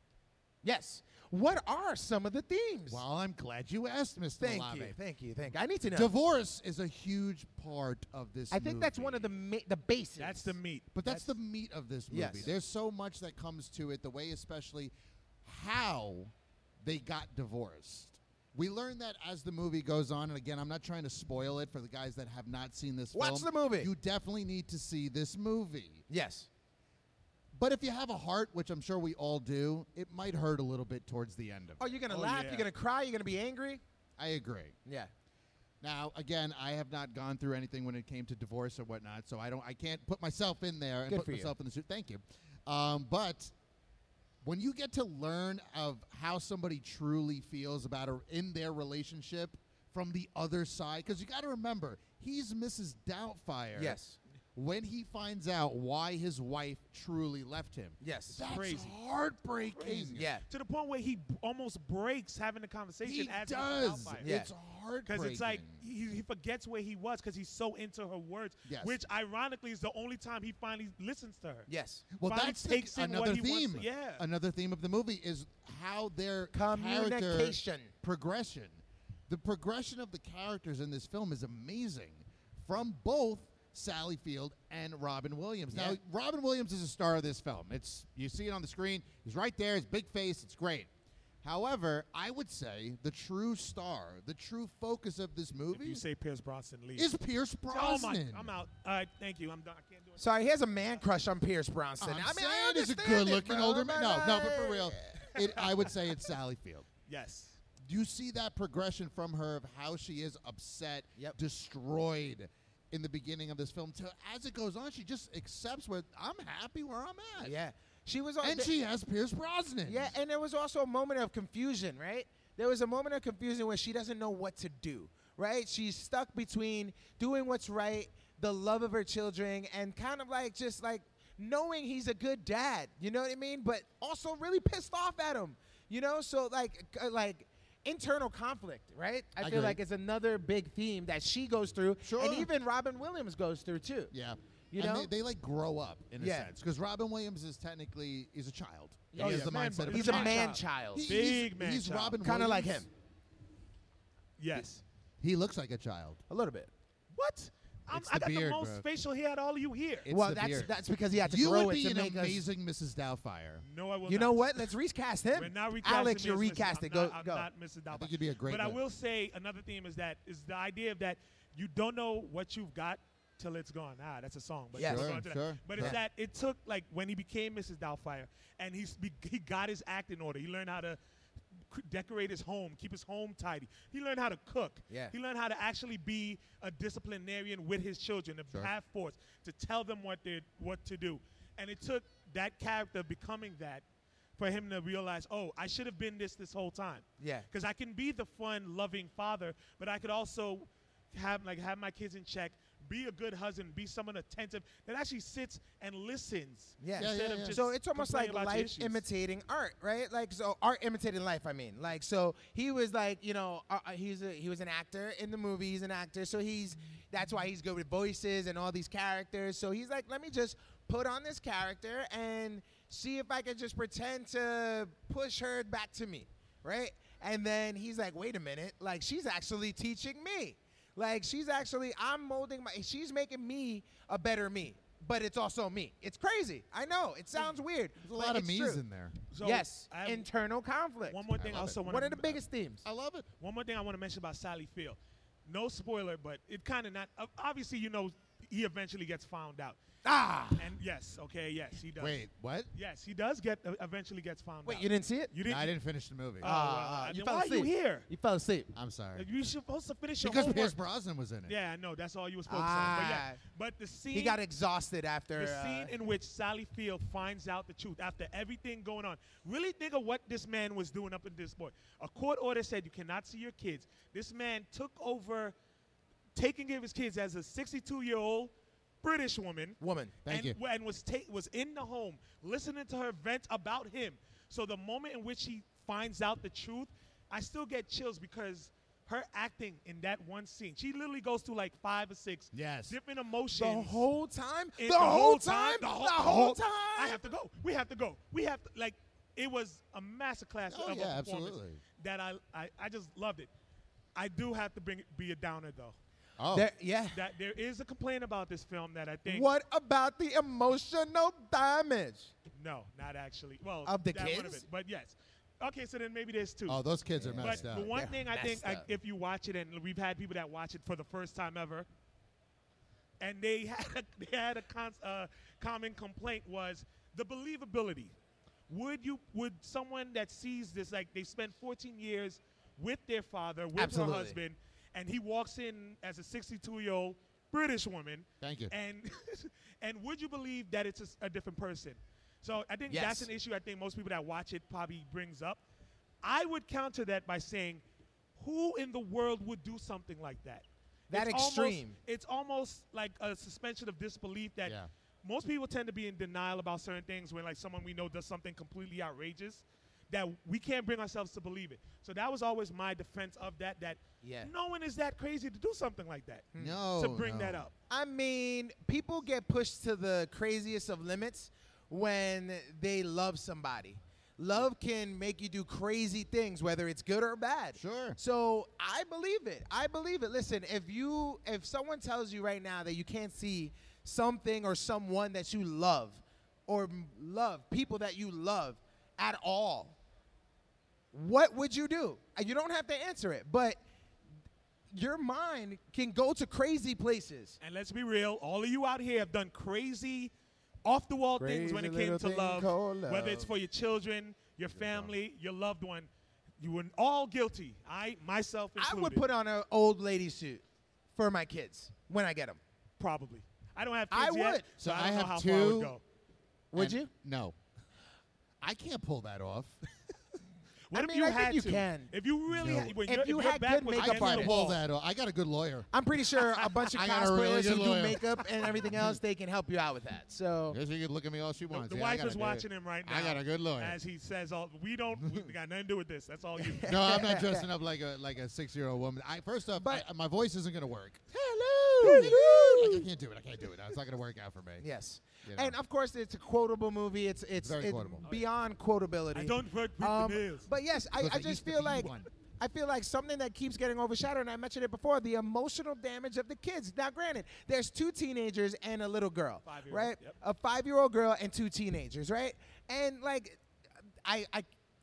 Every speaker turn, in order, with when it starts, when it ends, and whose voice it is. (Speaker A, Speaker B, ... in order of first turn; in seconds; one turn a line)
Speaker A: 0.6-3.0
Speaker B: 2.9-5.0
Speaker A: 4.4-6.1
Speaker B: 5.9-9.3
Speaker A: 8.5-10.6
Speaker C: 10.2-11.3
Speaker B: 10.9-14.9
Speaker A: 12.1-12.5
Speaker B: 15.4-26.0
Speaker A: 23.1-23.9
Speaker A: 26.1-26.5
Speaker B: 27.5-31.9
Speaker A: 31.8-33.8
Speaker C: 32.1-32.7
Speaker B: 34.2-34.8
Speaker A: 34.9-35.1
Speaker B: 35.8-43.5
Speaker A: 41.1-41.5
Speaker B: 44.4-54.0
Speaker A: 53.8-54.2
Speaker B: 54.5-60.3
Speaker A: 58.0-58.4
Speaker C: 58.5-59.0
Speaker C: 59.7-64.3
Speaker A: 60.1-60.4
Speaker B: 63.0-65.8
Speaker A: 64.2-64.5
Speaker C: 65.0-71.7
Speaker B: 68.7-69.0
Speaker A: 71.7-72.0
Speaker B: 72.1-90.9
Speaker C: 72.2-74.2
Speaker A: 76.5-77.9
Speaker A: 85.7-86.0
Speaker B: 91.4-96.0
Speaker C: 95.7-97.1
Speaker B: 97.0-98.5
Speaker C: 97.7-100.2
Speaker A: 100.2-105.3
Speaker B: 102.0-106.9
Speaker C: 105.3-106.1
Speaker C: 107.1-107.6
Speaker B: 107.8-117.5
Speaker A: 117.4-118.7
Speaker B: 118.4-120.1
Speaker A: 119.8-144.1
Speaker B: 139.4-139.8
Speaker B: 142.0-142.5
Speaker B: 144.1-152.9
Speaker A: 144.7-145.1
Speaker A: 146.2-146.5
Speaker A: 149.1-151.1
Speaker C: 149.2-152.2
Speaker A: 152.2-152.9
Speaker C: 154.4-154.8
Speaker B: 155.2-156.2
Speaker A: 156.3-156.7
Speaker C: 157.1-160.1
Speaker B: 157.9-158.8
Speaker B: 160.0-160.7
Speaker A: 160.1-162.4
Speaker B: 161.2-163.6
Speaker C: 163.6-164.6
Speaker A: 164.1-167.5
Speaker C: 165.3-181.0
Speaker B: 167.9-168.8
Speaker A: 174.7-175.2
Speaker B: 174.8-176.0
Speaker C: 181.7-193.8
Speaker C: 194.4-209.0
Speaker A: 197.2-197.4
Speaker A: 206.8-238.8
Speaker B: 207.0-207.6
Speaker B: 238.0-239.2
Speaker C: 239.3-240.3
Speaker A: 239.4-242.8
Speaker C: 241.1-242.4
Speaker B: 241.4-241.8
Speaker B: 242.8-243.3
Speaker C: 243.4-249.8
Speaker A: 250.0-250.7
Speaker C: 250.6-252.2
Speaker B: 252.0-252.7
Speaker C: 252.7-255.7
Speaker A: 254.6-255.3
Speaker B: 255.4-256.5
Speaker C: 256.4-258.1
Speaker A: 256.4-258.7
Speaker B: 258.7-259.2
Speaker C: 259.1-260.8
Speaker B: 260.2-261.5
Speaker C: 261.4-264.4
Speaker A: 262.5-263.4
Speaker A: 264.1-265.9
Speaker C: 265.4-275.5
Speaker C: 276.3-294.0
Speaker A: 279.8-280.1
Speaker B: 280.2-280.6
Speaker B: 292.5-292.9
Speaker A: 293.5-297.2
Speaker C: 294.8-303.5
Speaker B: 300.7-301.8
Speaker C: 304.1-305.9
Speaker B: 306.4-306.7
Speaker A: 306.5-307.2
Speaker C: 307.1-309.5
Speaker A: 309.2-312.3
Speaker C: 312.5-316.8
Speaker A: 313.9-314.6
Speaker B: 316.7-317.9
Speaker A: 317.2-318.9
Speaker C: 317.4-321.9
Speaker C: 323.2-328.1
Speaker C: 328.7-345.6
Speaker A: 333.8-334.4
Speaker B: 338.4-338.7
Speaker A: 342.9-343.3
Speaker C: 346.2-347.8
Speaker C: 348.4-367.7
Speaker A: 351.1-352.0
Speaker B: 354.6-354.9
Speaker A: 364.2-364.5
Speaker A: 366.5-366.8
Speaker B: 366.6-367.7
Speaker A: 367.9-389.9
Speaker B: 377.8-378.2
Speaker A: 391.1-393.8
Speaker A: 394.9-397.6
Speaker C: 397.6-400.3
Speaker C: 400.8-406.1
Speaker A: 401.4-403.5
Speaker B: 404.7-405.1
Speaker C: 406.6-409.2
Speaker A: 408.8-410.6
Speaker A: 411.1-412.6
Speaker C: 413.0-416.0
Speaker A: 414.1-414.6
Speaker B: 414.8-416.0
Speaker A: 416.7-417.1
Speaker B: 416.7-417.6
Speaker B: 418.6-419.8
Speaker C: 420.9-424.8
Speaker A: 420.9-422.1
Speaker B: 422.5-422.9
Speaker A: 422.6-424.5
Speaker B: 423.9-425.9
Speaker A: 425.9-430.8
Speaker B: 426.8-429.2
Speaker B: 430.7-434.0
Speaker C: 431.7-436.9
Speaker A: 436.6-437.7
Speaker B: 436.8-441.2
Speaker A: 439.8-440.1
Speaker A: 441.3-443.1
Speaker B: 442.0-444.8
Speaker C: 442.0-442.3
Speaker A: 444.8-463.6
Speaker B: 445.4-445.8
Speaker B: 447.6-448.2
Speaker C: 449.3-450.7
Speaker B: 451.1-452.3
Speaker C: 459.6-460.3
Speaker A: 464.2-464.7